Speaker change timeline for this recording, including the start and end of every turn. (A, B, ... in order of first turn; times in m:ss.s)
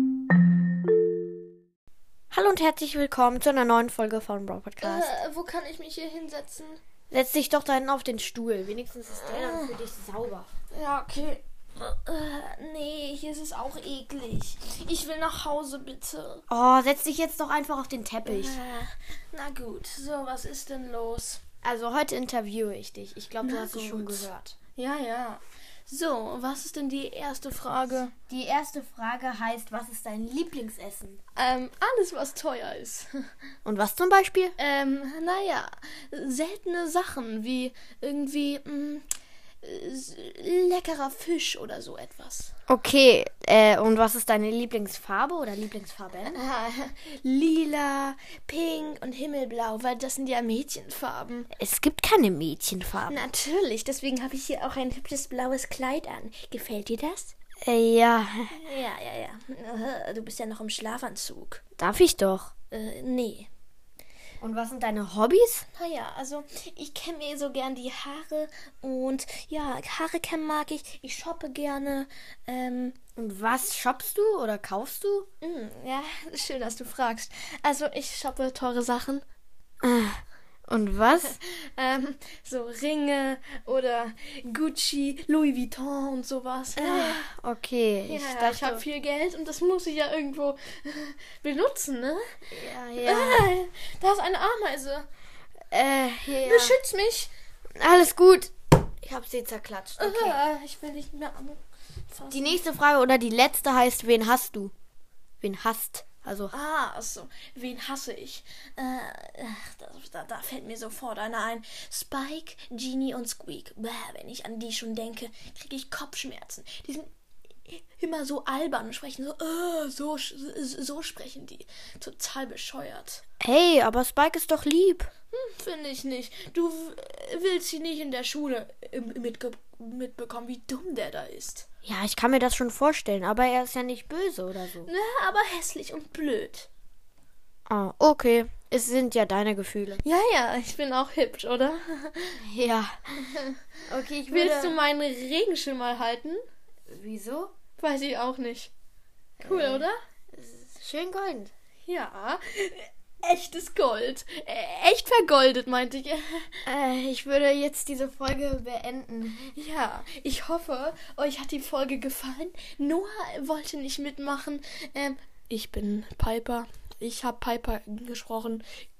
0:02.3-0:05.2 A
0:04.8-0:06.8 B
0:07.1-0:10.5 A
0:09.3-0:09.7 B
0:10.7-0:16.4 B
0:16.5-0:18.6 A
0:18.2-0:21.4 B
0:21.6-0:24.6 A
0:23.4-0:28.1 B
0:28.3-0:31.2 A
0:31.3-0:33.1 B
0:33.6-0:34.5 A
0:34.6-0:39.0 B
0:39.6-0:42.5 B
0:42.7-0:46.4 A
0:46.3-0:51.5 B
0:51.5-0:53.2 A
0:53.1-0:57.3 B
0:57.6-0:58.6 A
0:58.5-1:01.6 B
1:01.8-1:02.5 A
1:02.7-1:03.5 B
1:04.4-1:05.6 A
1:05.7-1:13.0 B
1:13.2-1:15.3 A
1:15.4-1:19.2 B
1:19.8-1:21.4 A
1:21.2-1:27.2 B
1:26.8-1:28.8 A
1:28.1-1:32.4 B
1:32.5-1:33.5 A
1:33.0-1:35.0 B
1:35.7-1:36.8 A
1:36.3-1:37.3 B
1:37.8-1:40.4 A
1:40.0-1:42.6 B
1:42.3-1:44.7 A
1:45.4-1:46.5 A
1:46.5-1:57.1 B
1:57.6-2:03.2 B
2:03.4-2:05.1 A
2:05.3-2:11.6 B
2:11.8-2:14.9 A
2:14.8-2:16.7 B
2:17.7-2:20.0 A
2:20.0-2:22.4 B
2:22.4-2:23.2 A
2:23.3-2:23.6 B
2:23.8-2:24.8 A
2:24.3-2:26.4 B
2:26.9-2:27.5 A
2:27.8-2:28.7 B
2:29.4-2:30.0 B
2:29.4-2:31.5 A
2:31.8-2:36.6 B
2:36.6-2:39.5 A
2:39.5-2:48.6 B